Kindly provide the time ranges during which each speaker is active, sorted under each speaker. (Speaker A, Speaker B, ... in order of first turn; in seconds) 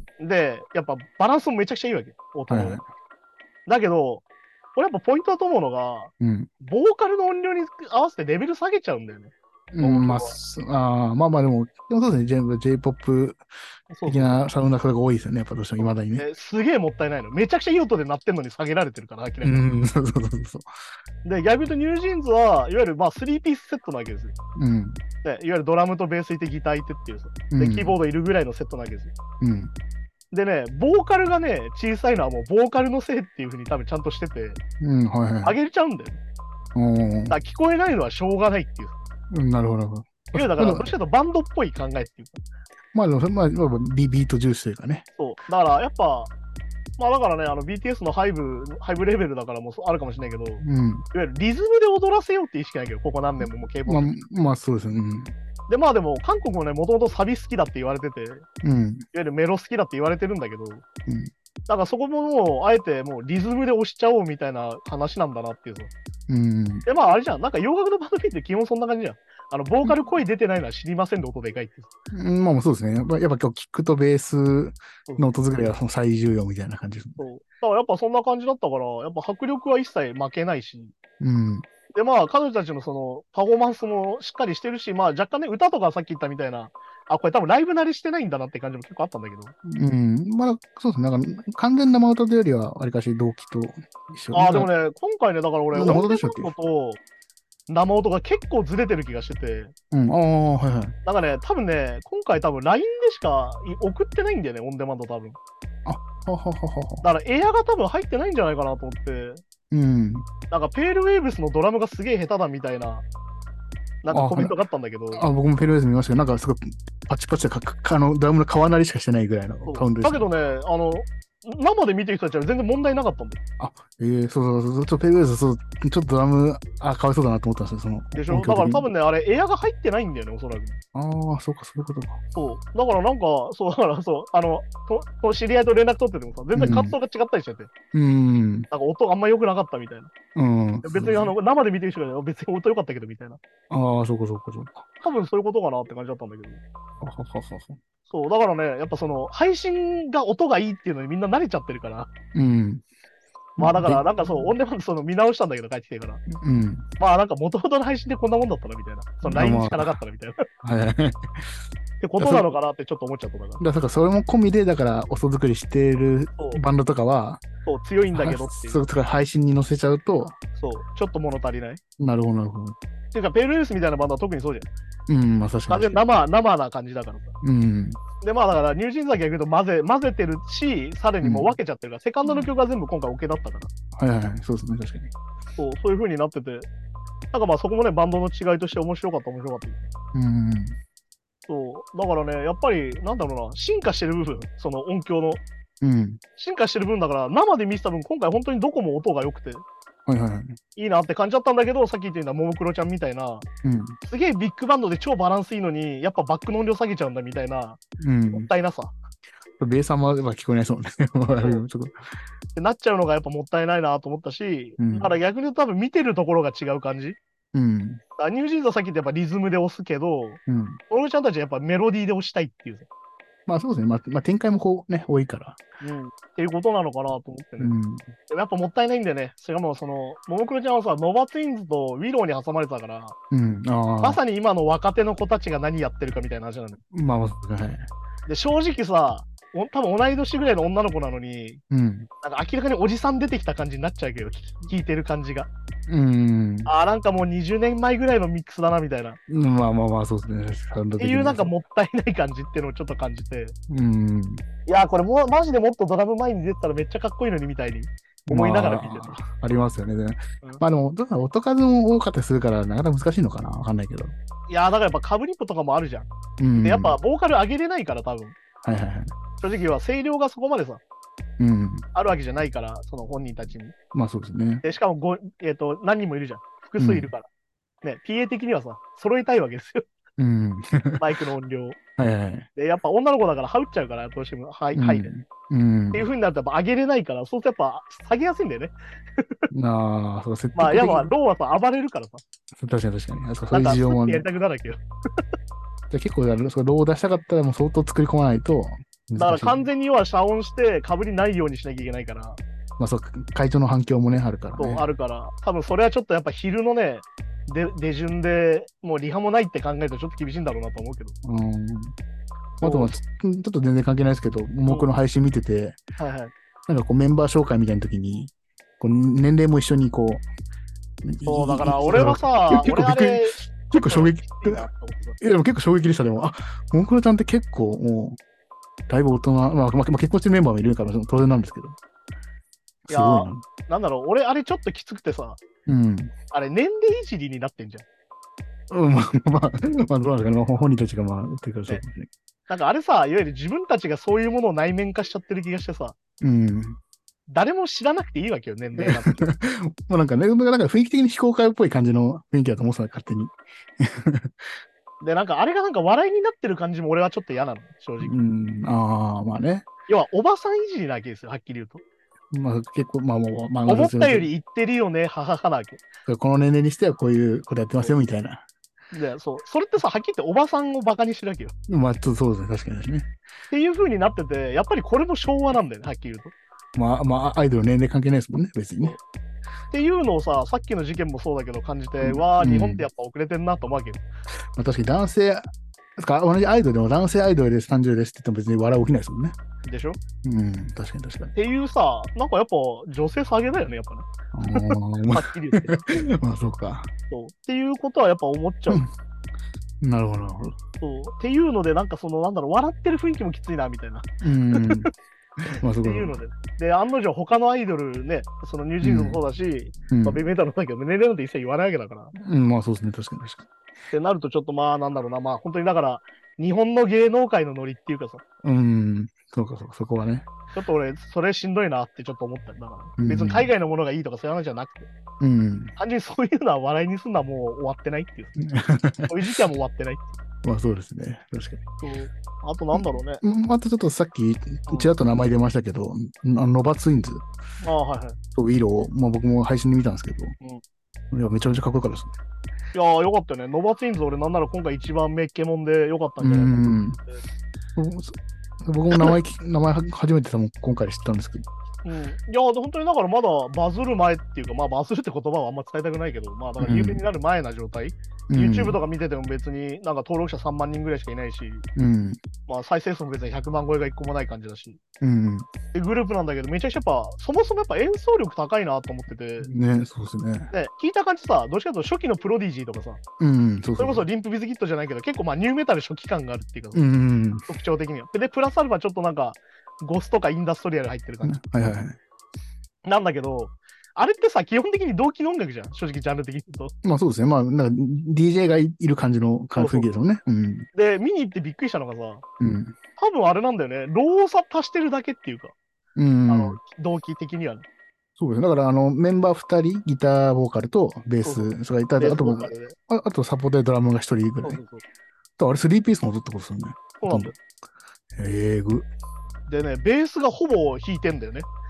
Speaker A: 0.2-2.8, 3.7-4.2, 4.8-10.4, 13.9-14.4, 15.8-19.6, 21.2-24.4, 25.2-29.1, 30.3-34.6, 35.4-36.2, 37.3-39.0, 40.3-42.4, 45.2-46.3, 47.0-54.1, 55.7-58.5, 59.1-60.9, 61.7-65.9, 66.9-71.9, 77.2-80.9, 81.9-89.5, 94.3-97.0, 97.7-99.7, 101.0-105.4, 107.0-109.4, 110.5-113.0, 114.0-115.2, 119.6-123.4, 128.1-130.8, 132.3-137.7, 138.7-140.1, 140.8-143.4, 145.0-146.6, 148.1-152.1, 153.6-156.2, 157.0-160.5, 162.0-163.6, 166.4-166.6, 167.6-168.8, 170.6-171.8, 173.1-174.7, 175.7-177.3, 178.2-183.7, 185.6-186.7, 187.3-189.9, 191.5-195.4, 196.4-199.6, 200.8-203.5, 204.0-207.8, 208.3-208.9, 212.6-217.2, 218.2-222.9, 225.8-227.7, 228.3-233.2, 234.0-236.8, 238.3-241.6, 242.2-245.5, 246.7-249.2, 251.0-253.6, 254.7-259.2, 264.5-268.4, 269.4-270.8, 271.9-273.7, 274.6-277.3, 277.8-279.9, 281.0-281.8, 282.6-285.1, 285.9-289.5, 290.6-292.2, 293.5-294.8, 299.2-302.4, 304.6-311.1, 312.6-313.0, 314.6-314.9, 316.0-316.3, 321.3-325.2, 332.9-335.4, 336.3-337.9, 342.5-346.0, 347.3-349.3, 355.0-358.1, 359.9-361.8, 363.7-365.8, 368.9-371.5, 373.5-376.3, 379.7-384.0, 389.6-390.0, 391.4-395.8, 397.1-398.8, 400.8-404.9, 405.8-412.1, 413.9-418.2, 420.5-424.9, 425.8-428.4, 429.1-430.2, 431.8-433.2, 437.6-438.2, 442.7-446.6, 451.9-461.6, 462.5-464.8, 465.7-469.5, 470.5-473.0, 473.8-476.8, 477.5-481.4, 482.9-486.7, 489.6-489.9, 490.7-492.2, 493.0-495.5, 496.3-497.7, 501.2-502.8, 504.4-504.8, 507.0-507.4, 509.5-511.5
Speaker B: 2.5-2.8, 6.2-6.5, 9.7-13.4, 14.1-16.3, 19.4-20.7, 24.6-25.0, 27.5-27.9, 29.4-29.7, 34.8-35.6, 36.8-37.4, 39.3-40.9, 42.9-45.0, 50.6-51.0, 53.9-55.3, 58.6-59.0, 61.1-61.3, 66.3-66.9, 72.1-77.2, 81.2-81.7, 89.6-94.7, 95.7-96.5, 99.9-101.0, 105.8-107.0, 109.7-110.3, 114.1-114.5, 115.1-120.3, 123.6-128.9, 130.9-132.2, 136.6-136.9, 137.9-138.7, 140.3-141.3, 143.7-144.9, 147.0-147.8, 152.3-152.8, 153.6-154.5, 156.3-156.9, 159.2-160.0, 160.6-161.5, 162.2-162.5, 163.6-167.4, 168.1-170.4, 172.0-172.8, 175.1-176.0, 177.4-178.0, 181.2-181.6, 183.9-185.1, 190.1-190.8, 195.8-196.2, 200.1-200.6, 203.6-204.0, 208.0-208.5, 209.6-212.0, 214.8-215.1, 217.5-218.0, 220.5-220.8, 223.5-225.6, 227.6-228.1, 233.3-234.2, 236.9-237.9, 241.7-242.1, 245.9-246.7, 249.3-251.5, 253.7-254.4, 258.3-264.1, 266.4-267.0, 268.6-269.2, 271.4-271.9, 273.9-274.6, 276.8-277.1, 280.2-281.0, 282.0-282.5, 284.8-286.1, 289.5-291.1, 292.6-294.3, 295.9-299.7, 302.8-304.9, 311.2-311.9, 312.6-315.8, 316.7-320.3, 321.0-324.7, 325.2-328.2, 328.9-331.8, 332.9-333.4, 335.7-336.1, 338.7-342.1, 346.2-346.8, 348.8-354.5, 358.0-359.7, 362.3-364.3, 366.1-368.4, 371.7-373.1, 376.8-379.0, 382.0-382.9, 384.6-389.4, 390.2-391.3, 394.3-396.9, 399.8-400.6, 404.2-404.9, 405.5-406.2, 408.8-409.2, 409.9-410.2, 412.1-413.5, 418.4-420.3, 423.0-423.5, 425.2-425.7, 428.4-429.1, 430.4-431.6, 432.7-437.2, 438.4-440.4, 441.1-442.1, 446.2-447.0, 447.8-451.5, 456.6-457.0, 458.3-458.8, 461.8-462.2, 465.0-465.5, 469.4-470.5, 473.2-474.1, 476.7-477.5, 481.2-482.0, 486.8-490.7, 492.4-492.8, 496.0-496.6, 498.2-504.6, 505.4-507.3, 508.2-508.9